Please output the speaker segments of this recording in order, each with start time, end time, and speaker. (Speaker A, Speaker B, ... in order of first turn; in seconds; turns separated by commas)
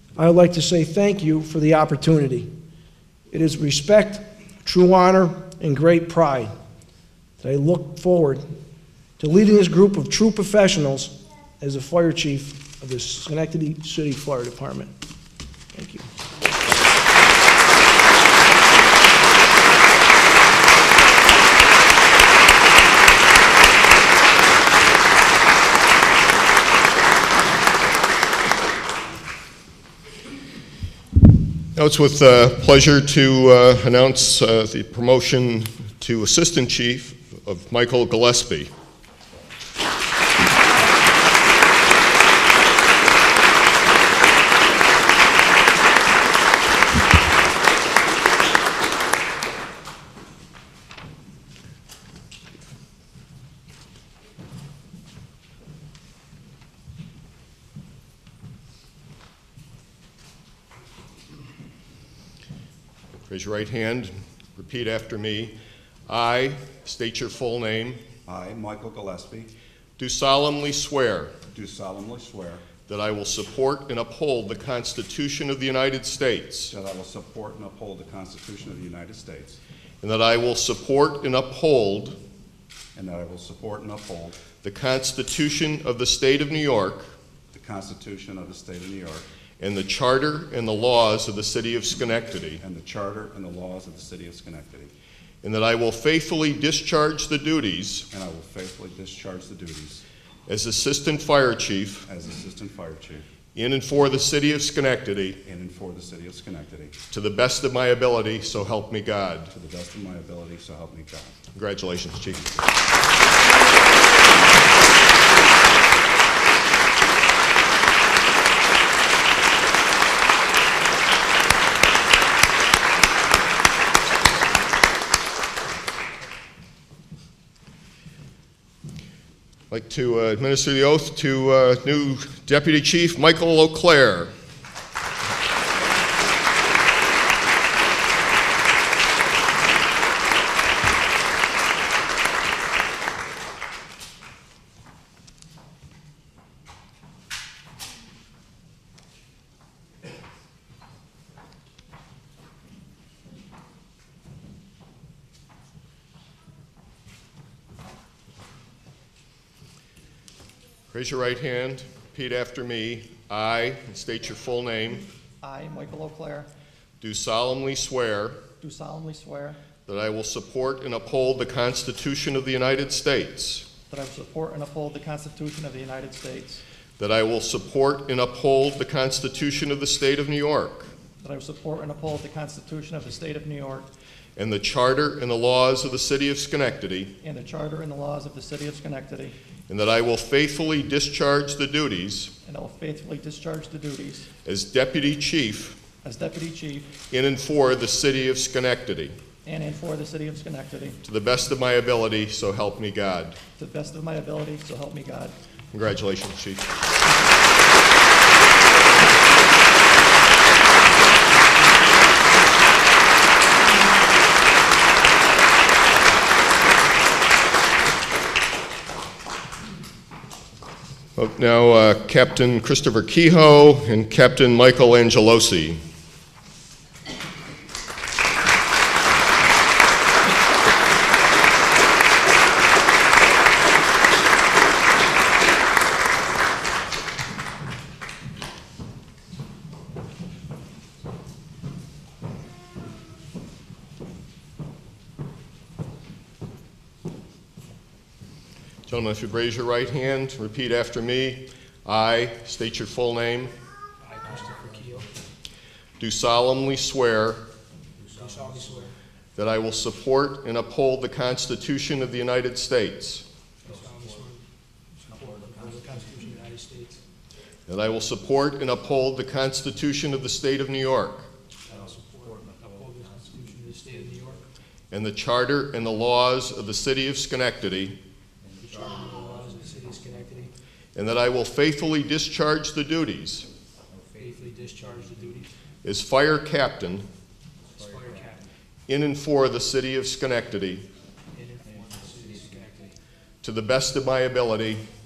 Speaker A: 0.2-2.5, Speaker A: 3.3-6.5, Speaker A: 7.4-8.4, Speaker A: 9.2-14.9, Speaker A: 15.7-16.1, Speaker B: 31.8-38.7, Speaker B: 63.3-65.5, Speaker B: 66.1-68.0, Speaker C: 68.3-69.5, Speaker B: 70.0-71.3, Speaker C: 71.5-72.7, Speaker B: 72.9-76.7, Speaker C: 76.7-79.6, Speaker B: 80.0-82.2, Speaker C: 83.0-84.4, Speaker B: 84.6-87.1, Speaker C: 87.5-89.3, Speaker B: 89.6-92.6, Speaker C: 92.6-94.9, Speaker B: 95.4-98.1, Speaker C: 98.1-100.0, Speaker B: 100.5-102.1, Speaker C: 102.1-103.2, Speaker B: 103.5-105.4, Speaker C: 105.4-107.0, Speaker B: 107.1-109.5, Speaker C: 109.5-111.4, Speaker B: 111.5-112.5, Speaker B: 129.7-134.3, Speaker B: 160.9-165.1, Speaker D: 165.4-166.5, Speaker B: 167.0-168.4, Speaker D: 168.6-169.6, Speaker B: 169.9-173.7, Speaker D: 173.9-176.6, Speaker B: 177.0-180.9, Speaker D: 181.2-183.9, Speaker B: 184.4-187.1, Speaker D: 187.2-189.4, Speaker B: 189.7-192.3, Speaker D: 192.4-194.3, Speaker B: 194.4-195.8, Speaker D: 196.0-196.9, Speaker B: 197.1-199.2, Speaker D: 199.4-201.0, Speaker B: 201.0-203.4, Speaker D: 203.6-205.4, Speaker B: 205.7-206.8, Speaker B: 221.2-225.8, Speaker B: 248.9-253.5, Speaker A: 254.0-255.1, Speaker E: 254.3-255.1, Speaker B: 256.0-257.4, Speaker E: 258.0-258.8, Speaker A: 258.2-258.9, Speaker B: 259.4-263.2, Speaker E: 263.6-264.3, Speaker A: 263.6-264.4, Speaker A: 265.0-267.0, Speaker E: 265.1-266.3, Speaker B: 267.7-271.3, Speaker A: 271.7-274.4, Speaker E: 271.7-274.5, Speaker B: 274.9-278.0, Speaker E: 278.4-280.1, Speaker A: 278.6-280.5, Speaker B: 280.9-283.5, Speaker E: 283.9-285.4, Speaker A: 284.2-285.5, Speaker B: 285.8-287.1, Speaker E: 287.6-288.4, Speaker A: 287.8-288.4, Speaker B: 288.9-290.9, Speaker A: 291.4-292.9, Speaker E: 291.6-292.9, Speaker B: 293.4-294.8